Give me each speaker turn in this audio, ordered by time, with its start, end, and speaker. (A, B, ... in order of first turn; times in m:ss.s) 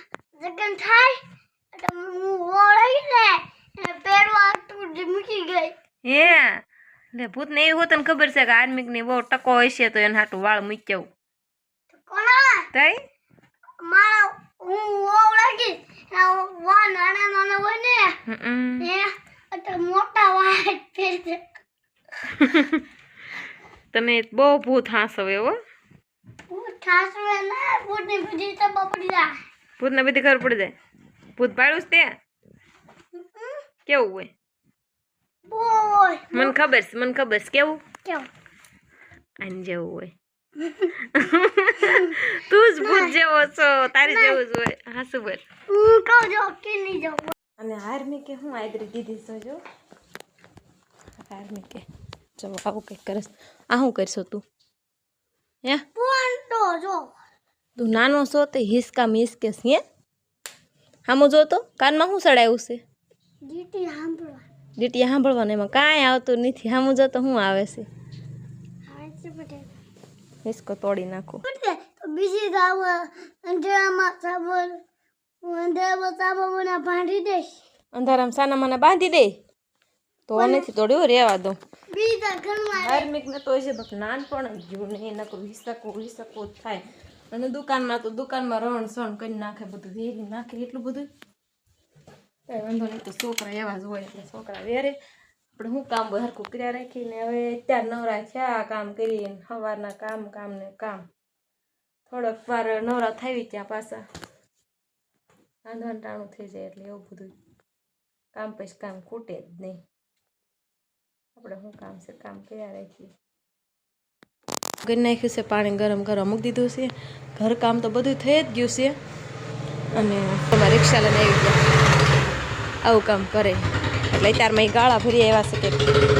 0:00.4-0:01.2 A
0:01.7-0:05.8 A
0:06.0-0:06.6 B
0:07.1-0:11.1 B
0:11.9-0:12.7 A
0:13.8-0:18.2 A
0:18.2-0:18.9 B
0:18.8-0:21.4 A
0:22.3-0:22.8 B
0:23.9-0:25.6 B
0:26.5-0:29.4 A
0:29.8-0:30.7 B
0:31.4-0:32.1 B
0:33.2-0:33.6 A
0:33.9-0:34.3 B
0:35.5-0:36.5 A
0:36.3-0:37.8 B
0:39.4-0:40.1 B
0:40.6-0:40.9 A
0:41.1-0:45.4 B
0:41.8-0:42.2 A
0:42.8-0:43.1 A
0:44.0-0:44.4 A
0:45.7-0:47.3 A
0:47.6-0:49.6 B
0:51.1-0:51.9 B
0:52.4-0:54.4 B
0:55.9-0:57.1 A
0:57.8-0:59.8 B
1:01.1-1:02.8 B
1:03.4-1:04.5 A
1:04.8-1:07.9 B
1:08.9-1:09.7 A
1:10.4-1:11.4 B
1:11.4-1:14.8 A
1:15.4-1:17.6 A
1:17.9-1:19.4 B
1:20.3-1:21.6 B
1:20.4-1:20.7 A
1:21.9-1:23.1 A
1:22.8-1:31.1 B
1:32.5-1:35.0 B
1:35.5-1:41.0 B
1:42.1-1:44.0 B
1:45.6-1:47.3 B
1:48.4-1:49.8 B
1:51.4-1:53.1 B
1:54.8-1:59.0 B
1:59.9-2:01.6 B
2:02.8-2:05.8 B